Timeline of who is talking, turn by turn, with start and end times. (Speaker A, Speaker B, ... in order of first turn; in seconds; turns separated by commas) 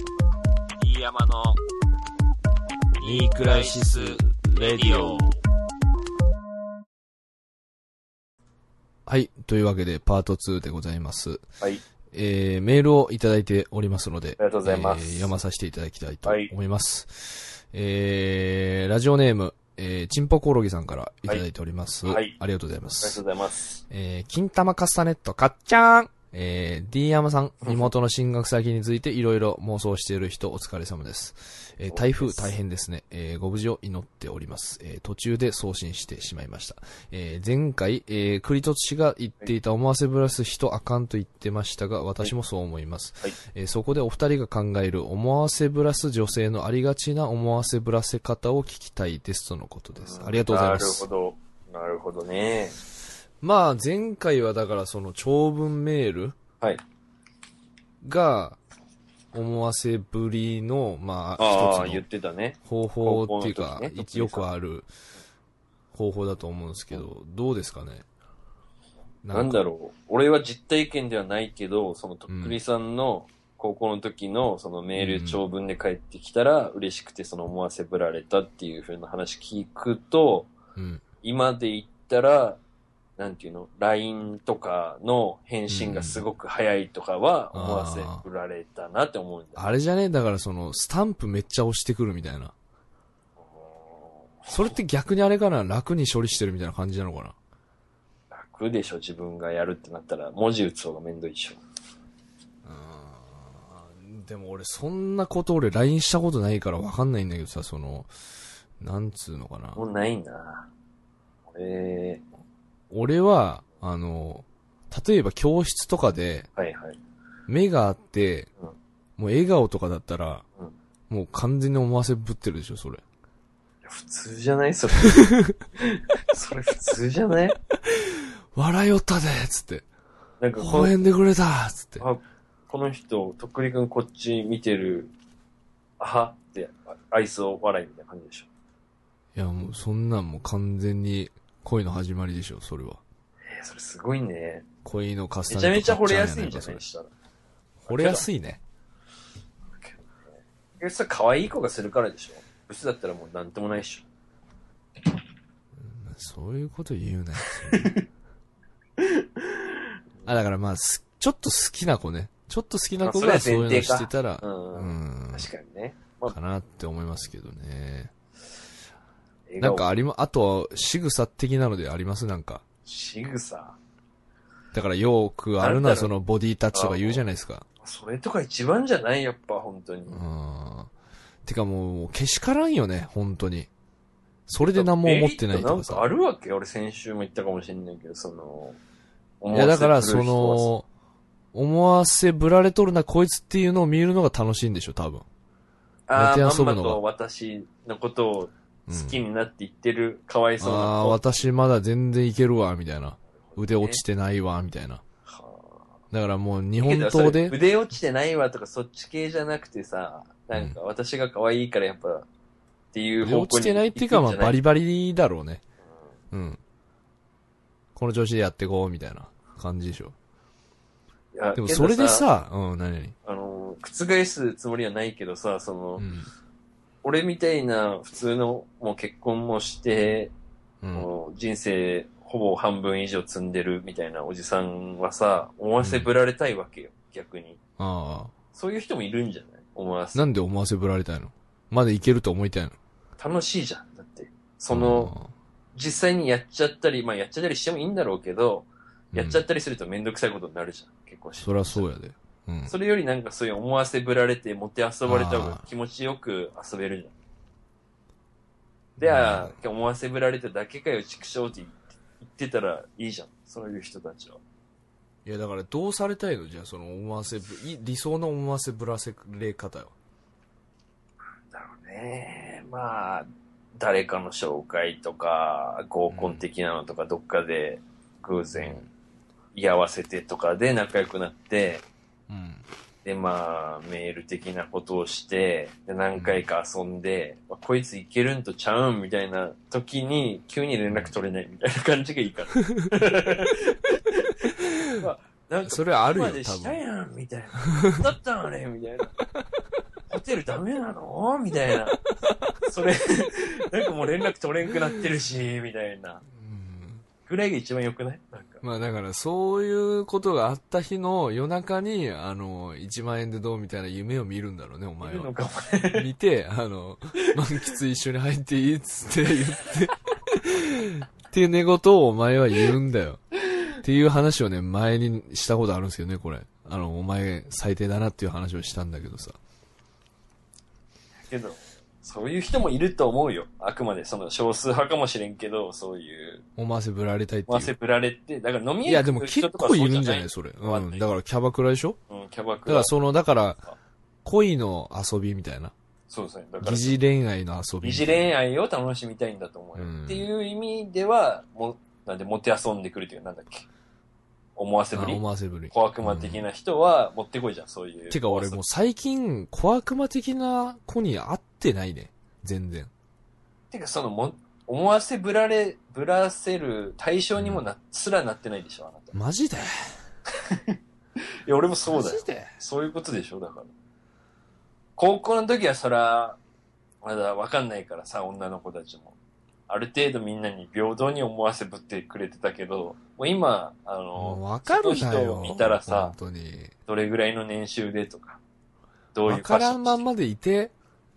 Speaker A: 0.8-1.6, Speaker A: 3.0-5.4, Speaker B: 3.0-5.3, Speaker B: 9.1-11.4, Speaker B: 12.1-23.2, Speaker A: 14.4-15.3, Speaker A: 16.2-16.5, Speaker A: 22.1-22.4, Speaker A: 23.0-23.8, Speaker B: 23.9-51.1, Speaker A: 31.8-32.5, Speaker A: 50.0-52.8, Speaker B: 53.4-56.4, Speaker B: 58.0-58.6, Speaker B: 59.3-62.0, Speaker A: 61.4-64.5, Speaker B: 62.7-64.9, Speaker B: 65.9-68.0, Speaker B: 69.2-69.6, Speaker A: 69.3-80.5, Speaker B: 72.3-72.6, Speaker B: 75.0-75.4, Speaker B: 80.8-81.0, Speaker A: 81.2-82.6, Speaker A: 83.2-89.7, Speaker B: 85.7-86.2, Speaker B: 87.5-88.2, Speaker B: 89.6-92.5, Speaker A: 93.5-94.8, Speaker B: 94.5-97.3, Speaker A: 98.3-101.6, Speaker B: 102.7-108.1, Speaker B: 108.8-109.8, Speaker A: 109.8-110.7, Speaker A: 111.5-112.2, Speaker B: 112.9-116.5, Speaker A: 116.6-117.0, Speaker B: 117.5-118.5, Speaker B: 119.2-120.4, Speaker B: 121.1-123.0, Speaker A: 123.9-127.6, Speaker B: 125.1-125.5, Speaker B: 127.9-129.9, Speaker A: 130.4-131.0, Speaker B: 130.6-132.1, Speaker A: 132.0-135.1, Speaker A: 136.0-138.5, Speaker B: 139.3-143.0, Speaker A: 143.5-144.7, Speaker B: 144.8-146.8, Speaker A: 145.5-147.1, Speaker A: 147.9-148.2, Speaker B: 147.9-148.6, Speaker A: 149.8-154.1, Speaker B: 155.8-157.9, Speaker A: 157.7-158.0, Speaker A: 159.0-159.8, Speaker B: 160.2-165.5, Speaker A: 163.0-166.4, Speaker B: 166.3-168.1, Speaker A: 169.5-169.9, Speaker B: 169.6-172.7, Speaker A: 172.9-173.8, Speaker B: 174.7-177.7, Speaker A: 175.6-176.2, Speaker A: 176.7-177.2, Speaker A: 177.8-180.2, Speaker B: 180.1-180.9, Speaker B: 181.4-183.7, Speaker B: 184.5-186.1, Speaker A: 184.7-188.8, Speaker A: 189.4-190.7, Speaker B: 189.5-190.9, Speaker B: 191.5-195.2, Speaker A: 196.1-201.4, Speaker B: 196.1-197.0, Speaker B: 198.9-199.2, Speaker B: 200.6-205.0, Speaker A: 203.4-204.0, Speaker A: 205.3-205.9, Speaker B: 206.1-207.6, Speaker A: 206.8-212.3, Speaker A: 212.9-214.6, Speaker B: 213.2-215.6, Speaker B: 216.3-216.6, Speaker B: 218.0-220.1, Speaker A: 221.3-222.3, Speaker B: 221.6-223.2, Speaker A: 223.3-226.1, Speaker B: 226.0-226.3, Speaker A: 227.0-230.3, Speaker B: 230.8-231.1, Speaker A: 230.9-237.6, Speaker B: 235.8-236.1, Speaker B: 237.8-238.3, Speaker A: 238.5-240.2, Speaker B: 240.2-242.8, Speaker A: 243.2-245.1, Speaker B: 244.7-245.3, Speaker A: 245.8-251.9, Speaker B: 249.1-249.4, Speaker B: 251.4-252.8, Speaker A: 252.7-257.1, Speaker B: 255.1-255.6, Speaker B: 259.0-259.6, Speaker A: 259.0-264.4, Speaker B: 265.2-269.9, Speaker A: 271.5-278.9, Speaker B: 276.1-276.4, Speaker B: 278.6-278.9, Speaker A: 279.5-281.9, Speaker B: 282.3-282.6, Speaker A: 283.0-299.1, Speaker B: 286.1-286.4, Speaker B: 290.9-291.1, Speaker B: 295.6-296.8, Speaker A: 300.1-302.0, Speaker A: 302.6-306.2, Speaker B: 306.4-307.1, Speaker A: 307.3-308.6, Speaker B: 308.6-315.3, Speaker A: 315.0-316.1, Speaker B: 315.9-323.2, Speaker B: 323.8-329.4, Speaker A: 331.3-336.4, Speaker B: 336.6-337.7, Speaker A: 337.5-341.1, Speaker B: 338.9-342.0, Speaker A: 342.1-342.9, Speaker B: 342.7-343.6, Speaker B: 344.2-345.7, Speaker A: 346.1-347.0, Speaker B: 346.6-348.3, Speaker A: 347.8-353.7, Speaker B: 349.8-350.3, Speaker A: 354.6-358.6, Speaker B: 354.9-356.4, Speaker B: 358.1-362.9, Speaker A: 363.7-369.1, Speaker B: 367.4-367.6, Speaker B: 369.1-369.7, Speaker A: 370.4-370.8, Speaker A: 371.4-373.7, Speaker B: 371.9-372.5, Speaker A: 375.0-376.4, Speaker A: 377.0-379.2, Speaker A: 379.7-386.1, Speaker B: 384.2-386.7, Speaker A: 386.9-388.4, Speaker A: 389.1-390.0, Speaker B: 389.3-390.7